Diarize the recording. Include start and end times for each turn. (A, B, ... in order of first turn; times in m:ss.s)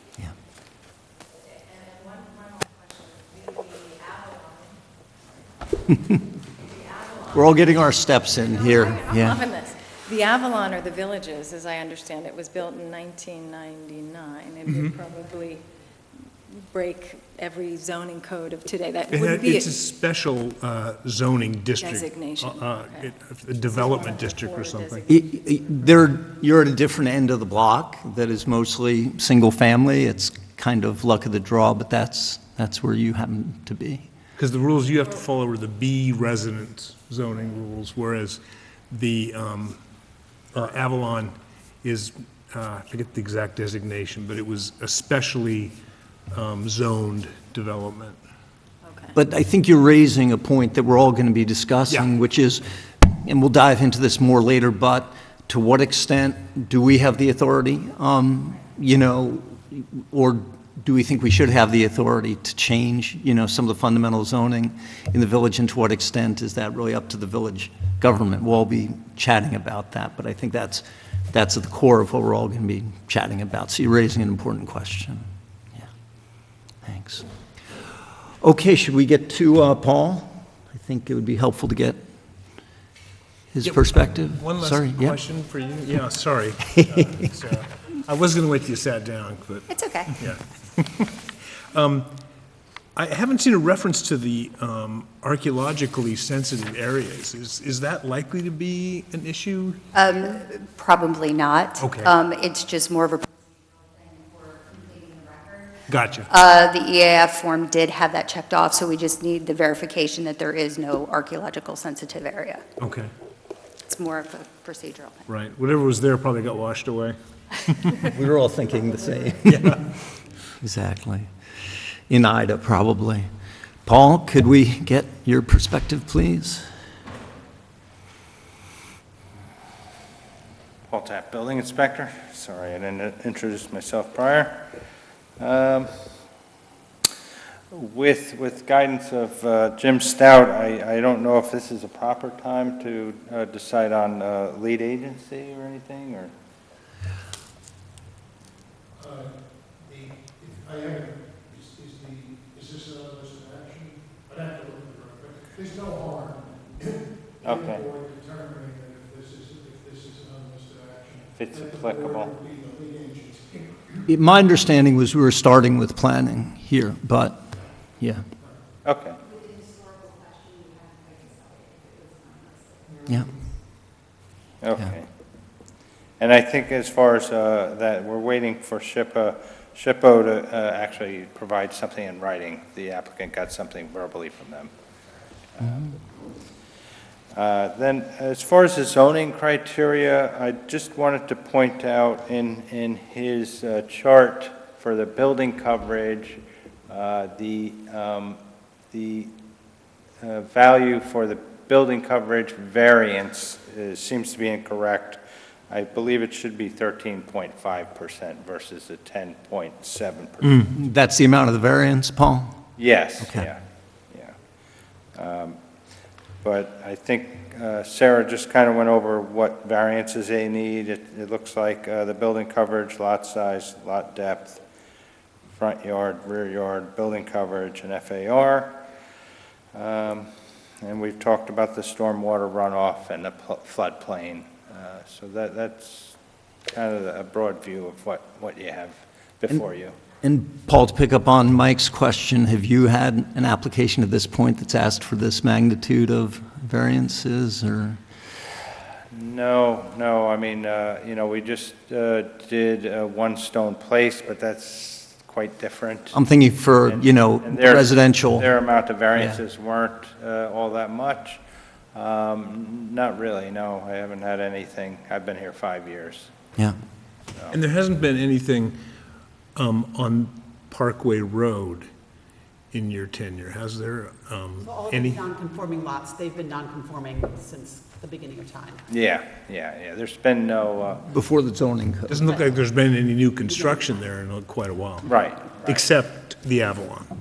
0:01.7-0:04.6 A
0:07.3-0:09.4 B
0:08.7-0:15.6 A
0:14.7-0:14.9 C
0:16.5-0:19.7 A
0:19.1-0:25.1 C
0:21.8-0:25.2 A
0:25.1-0:34.1 B
0:34.4-0:39.8 C
0:40.5-0:45.7 C
0:46.3-0:48.2 C
0:48.9-0:49.2 A
0:49.1-1:15.2 B
1:16.8-1:17.3 B
1:18.4-1:22.0 B
1:23.5-1:25.2 B
1:23.6-1:31.1 C
1:29.7-1:30.1 D
1:31.7-1:32.1 C
1:33.0-1:39.8 C
1:39.9-1:52.6 D
1:41.8-1:42.1 C
1:45.9-1:46.3 C
1:52.8-1:53.1 C
1:53.8-1:55.3 D
1:55.3-1:58.0 C
1:58.0-1:59.9 B
1:59.5-1:59.8 C
2:00.6-2:01.3 B
2:02.1-2:03.3 B
2:03.9-2:06.7 B
2:10.9-2:14.7 E
2:15.4-2:15.9 E
2:17.7-2:26.3 E
2:29.0-2:36.9 F
2:37.4-2:37.9 E
2:37.5-2:43.8 F
2:41.4-2:42.4 E
2:44.1-2:47.4 B
2:48.8-2:49.2 E
2:54.6-2:55.1 E
2:56.2-3:04.7 E
3:05.6-3:06.0 E
3:07.3-3:18.4 E
3:18.9-3:19.3 E
3:20.2-3:30.7 E
3:30.7-3:32.6 B
3:32.8-3:33.6 E
3:33.2-3:33.5 B
3:35.2-3:35.6 E
3:36.4-3:44.6 E
3:45.5-3:48.8 E
3:49.7-3:50.3 E
3:50.8-3:56.2 E
3:56.7-4:00.0 E
4:00.2-4:08.0 B
4:09.1-4:16.2 E
4:16.1-4:18.5 B
4:16.8-4:21.4 E
4:22.0-4:26.3 E
4:27.5-4:28.8 C
4:29.6-4:31.9 C
4:32.7-4:35.2 C
4:34.7-4:38.8 G
4:38.9-4:41.1 E
4:41.1-4:42.3 B
4:42.1-4:47.1 C
4:45.0-4:45.9 E